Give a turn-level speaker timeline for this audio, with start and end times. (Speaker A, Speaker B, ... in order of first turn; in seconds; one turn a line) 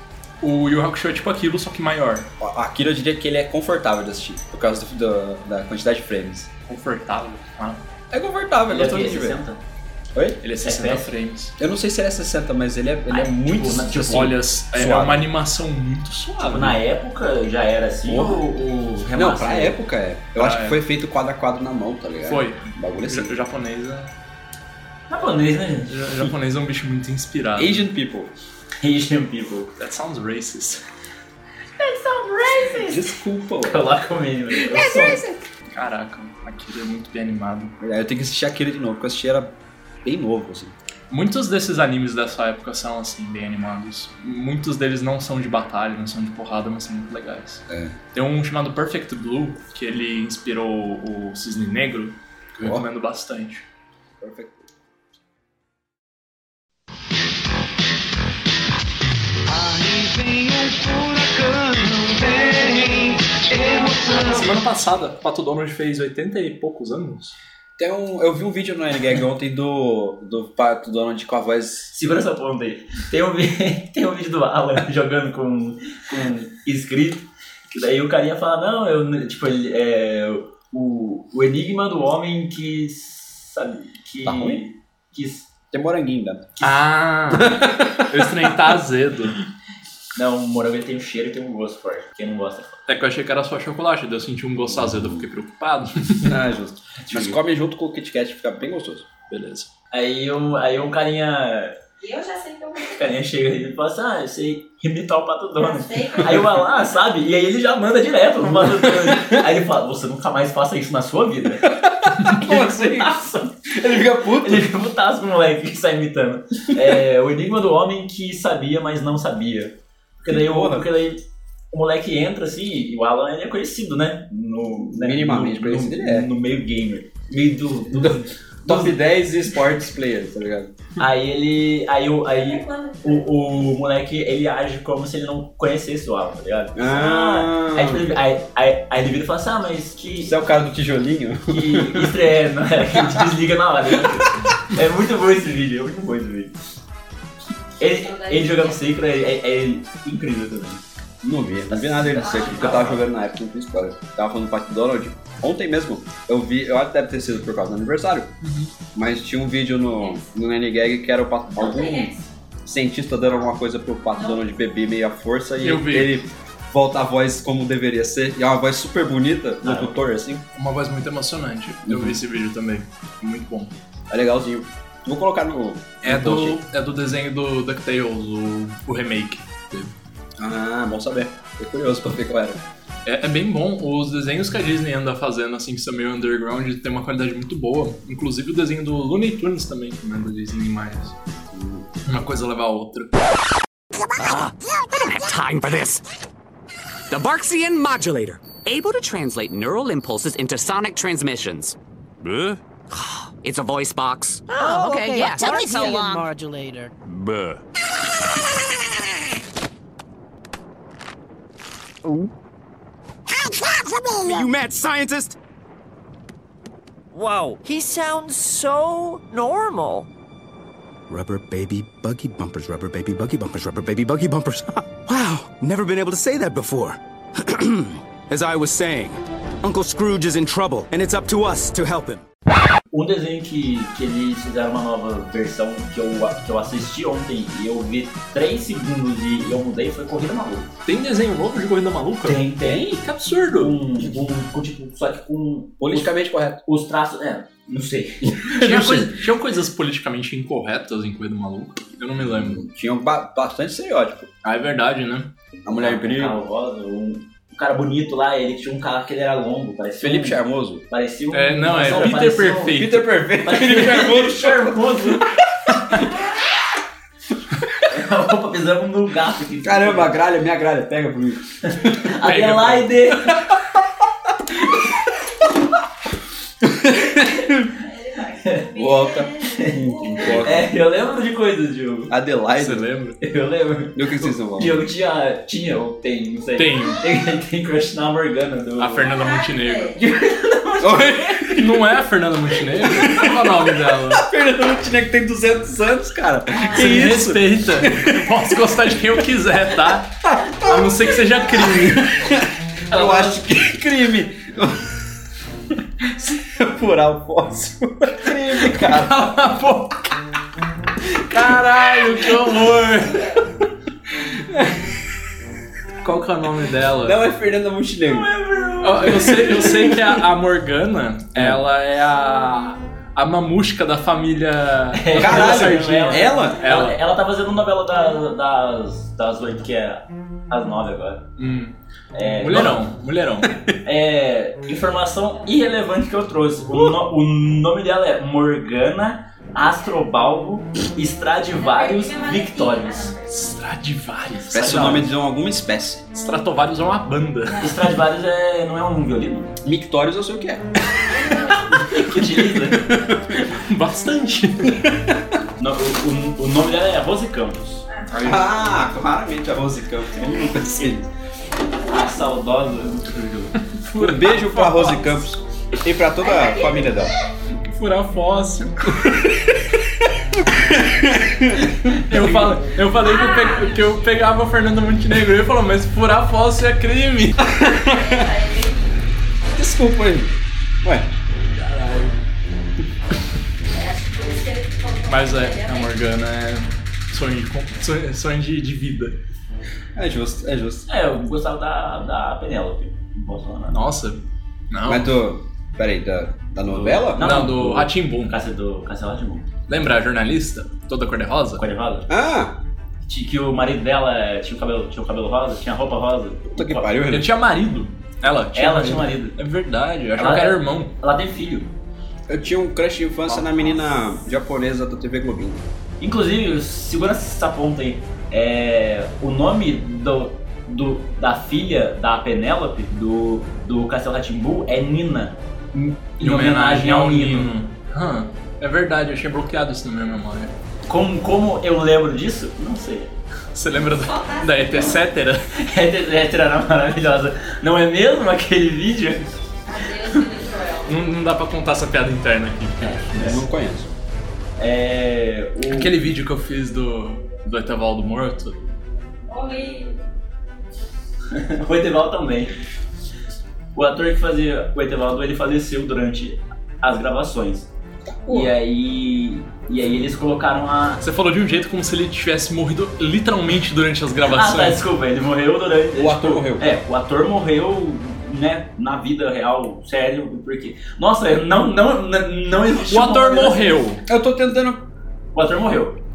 Speaker A: 0.4-2.3
Speaker B: 2.4-6.5
Speaker A: 6.7-7.8
Speaker B: 8.1-9.4
Speaker C: 8.7-9.6
Speaker A: 10.4-11.5
Speaker C: 10.6-11.1
Speaker B: 11.6-15.3
Speaker C: 13.1-14.3
Speaker A: 14.0-16.8
Speaker C: 16.4-19.8
Speaker B: 18.1-18.4
Speaker B: 19.1-23.4
Speaker A: 20.4-20.8
Speaker A: 22.2-24.1
Speaker C: 25.1-26.0
Speaker A: 25.9-27.9
Speaker B: 27.6-28.3
Speaker C: 28.8-29.7
Speaker A: 29.8-30.8
Speaker D: 31.8-33.0
Speaker B: 32.6-33.9
Speaker C: 33.6-35.2
Speaker B: 34.5-35.4
Speaker A: 35.7-37.7
Speaker B: 37.8-40.7
Speaker A: 41.1-53.7
Speaker B: 47.7-48.0
Speaker B: 54.2-54.7
Speaker A: 62.3-62.6
Speaker A: 63.6-67.3
Speaker B: 67.8-72.0
Speaker C: 71.9-85.5
Speaker B: 84.2-84.6
Speaker B: 85.7-86.7
Speaker A: 86.6-89.4
Speaker B: 87.3-88.7
Speaker C: 90.1-92.8
Speaker A: 92.9-96.4
Speaker B: 94.7-95.2
Speaker B: 96.2-99.1
Speaker A: 99.3-99.7
Speaker C: 99.9-101.8
Speaker D: 102.0-103.1
Speaker C: 102.8-111.8
Speaker D: 105.6-106.5
Speaker B: 108.4-109.4
Speaker B: 111.6-114.7
Speaker C: 112.3-121.2
Speaker B: 120.2-120.9
Speaker C: 121.7-128.9
Speaker B: 124.8-126.3
Speaker B: 127.9-130.7
Speaker C: 131.0-140.3
Speaker D: 132.3-133.6
Speaker B: 136.7-138.1
Speaker B: 140.2-142.3
Speaker C: 141.5-146.5
Speaker B: 142.9-143.3
Speaker C: 147.8-150.8
Speaker D: 147.8-148.8
Speaker B: 151.2-158.3
Speaker C: 151.7-153.0
Speaker D: 152.2-152.9
Speaker A: 158.4-158.7
Speaker B: 158.9-162.1
Speaker D: 161.6-162.3
Speaker B: 162.6-170.4
Speaker D: 164.1-164.4
Speaker A: 165.6-166.1
Speaker C: 169.6-170.0
Speaker A: 170.5-173.8
Speaker B: 171.8-172.2
Speaker B: 174.1-176.6
Speaker A: 176.0-179.9
Speaker B: 180.4-182.6
Speaker A: 183.0-191.1
Speaker B: 191.5-191.9
Speaker A: 192.0-193.2
Speaker E: 194.1-196.0
Speaker E: 197.1-206.3
Speaker F: 204.5-206.9
Speaker E: 207.1-207.6
Speaker G: 213.3-215.3
Speaker F: 217.1-220.1
Speaker G: 221.1-232.2
Speaker C: 232.9-240.7
Speaker A: 240.8-242.4
Speaker C: 242.2-242.9
Speaker B: 242.6-243.0
Speaker A: 243.0-243.8
Speaker C: 243.5-246.1
Speaker B: 245.8-246.6
Speaker C: 246.6-248.9
Speaker B: 248.4-249.1
Speaker A: 248.6-252.6
Speaker B: 252.2-254.3
Speaker A: 254.4-255.3
Speaker B: 255.6-256.4
Speaker C: 255.7-262.8
Speaker B: 260.0-260.8
Speaker A: 261.3-263.1
Speaker B: 261.9-266.3
Speaker C: 263.4-265.3
Speaker C: 267.8-270.2
Speaker B: 269.6-272.0
Speaker C: 271.7-273.4
Speaker A: 272.2-272.9
Speaker B: 273.3-273.6
Speaker B: 276.6-277.7
Speaker D: 277.2-280.3
Speaker C: 278.3-278.7
Speaker B: 278.7-280.7
Speaker C: 279.5-282.1
Speaker B: 282.1-282.9
Speaker A: 282.6-283.2
Speaker C: 283.2-289.1
Speaker B: 283.9-284.8
Speaker A: 286.6-287.0
Speaker A: 288.8-290.0
Speaker D: 289.0-290.0
Speaker C: 289.9-291.5
Speaker B: 290.8-291.8
Speaker A: 291.5-294.3
Speaker B: 292.7-298.6
Speaker A: 296.6-302.1
Speaker B: 299.9-305.0
Speaker A: 302.9-303.4
Speaker B: 306.0-309.6
Speaker A: 308.6-310.1
Speaker A: 311.2-313.4
Speaker B: 314.4-314.9
Speaker A: 316.0-317.2
Speaker B: 317.0-318.3
Speaker C: 318.0-319.9
Speaker A: 318.8-327.0
Speaker B: 319.1-320.2
Speaker B: 321.3-321.6
Speaker C: 324.9-331.2
Speaker B: 325.1-326.6
Speaker A: 331.4-333.6
Speaker C: 332.1-332.8
Speaker C: 333.8-343.1
Speaker D: 341.5-343.3
Speaker A: 343.3-345.0
Speaker C: 344.5-345.1
Speaker B: 344.5-346.0
Speaker A: 346.1-347.6
Speaker D: 347.4-347.8
Speaker C: 347.6-349.5
Speaker B: 349.6-350.8
Speaker D: 350.8-351.9
Speaker C: 351.6-352.8
Speaker B: 352.6-353.4
Speaker A: 353.3-354.9
Speaker B: 354.7-354.9
Speaker C: 355.6-357.8
Speaker B: 358.1-361.1
Speaker C: 360.2-360.9
Speaker C: 361.8-363.6
Speaker A: 363.6-365.2
Speaker B: 364.0-367.2
Speaker D: 366.2-367.2
Speaker A: 367.6-369.2
Speaker B: 368.9-372.6
Speaker A: 371.9-377.4
Speaker D: 373.0-374.2
Speaker B: 377.4-378.3
Speaker D: 377.7-379.0
Speaker B: 379.5-381.1
Speaker C: 381.6-382.1
Speaker D: 383.7-385.9
Speaker A: 385.1-389.2
Speaker B: 389.9-390.9
Speaker C: 390.9-393.8
Speaker A: 393.7-395.1
Speaker B: 394.9-397.8
Speaker C: 396.7-399.5
Speaker A: 397.2-398.4
Speaker A: 399.7-401.6
Speaker C: 401.6-402.1
Speaker B: 402.1-402.6
Speaker C: 403.0-406.9
Speaker B: 406.5-407.3
Speaker A: 407.1-410.9
Speaker C: 408.5-409.4
Speaker C: 410.2-411.7
Speaker B: 412.3-415.6
Speaker C: 416.0-427.5
Speaker A: 426.2-430.5
Speaker C: 430.9-433.1
Speaker A: 433.5-435.5
Speaker D: 433.9-434.9
Speaker C: 435.5-439.4
Speaker D: 439.6-440.9
Speaker A: 440.8-443.4
Speaker C: 442.8-443.4
Speaker B: 443.1-443.9
Speaker C: 444.6-445.9
Speaker A: 445.7-448.6
Speaker D: 449.3-450.0
Speaker C: 451.3-452.5
Speaker C: 453.7-457.7
Speaker B: 458.1-458.5
Speaker C: 458.3-461.0
Speaker A: 461.0-464.8
Speaker C: 464.3-473.8
Speaker B: 466.0-466.6
Speaker A: 472.8-474.0
Speaker B: 474.1-474.8
Speaker C: 475.3-476.0